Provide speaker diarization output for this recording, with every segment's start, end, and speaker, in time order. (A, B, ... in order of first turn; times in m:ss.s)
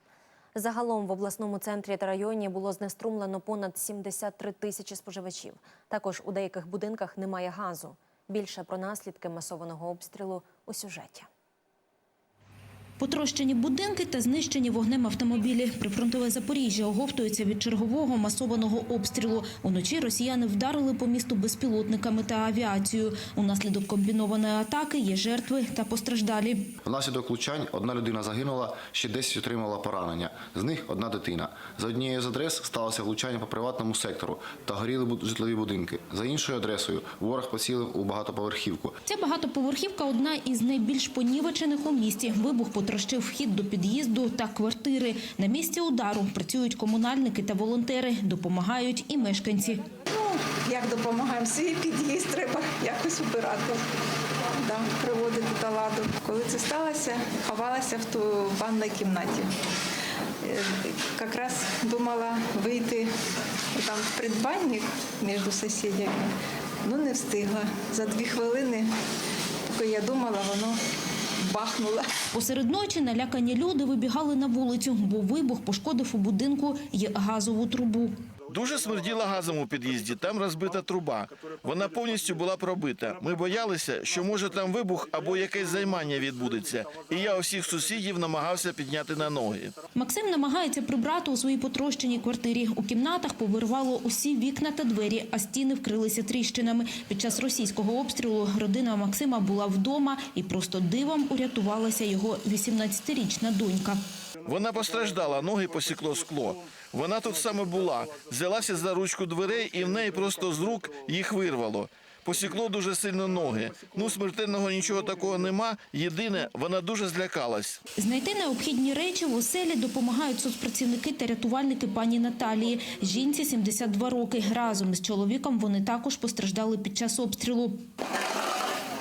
0:00.6-0:11.3 A
0:13.0-0:26.7 B
0:26.8-0:38.9 C
0:39.1-0:49.9 B
0:50.1-0:53.8 D
0:54.6-0:59.5 D
1:00.4-1:03.1 D
1:03.8-1:06.3 D
1:06.8-1:08.9 D
1:09.7-1:10.8 D
1:11.5-1:12.1 D
1:12.3-1:18.2 B
1:18.5-1:29.8 E
1:29.9-1:44.0 B
1:44.4-1:57.8 E
1:58.0-2:07.8 B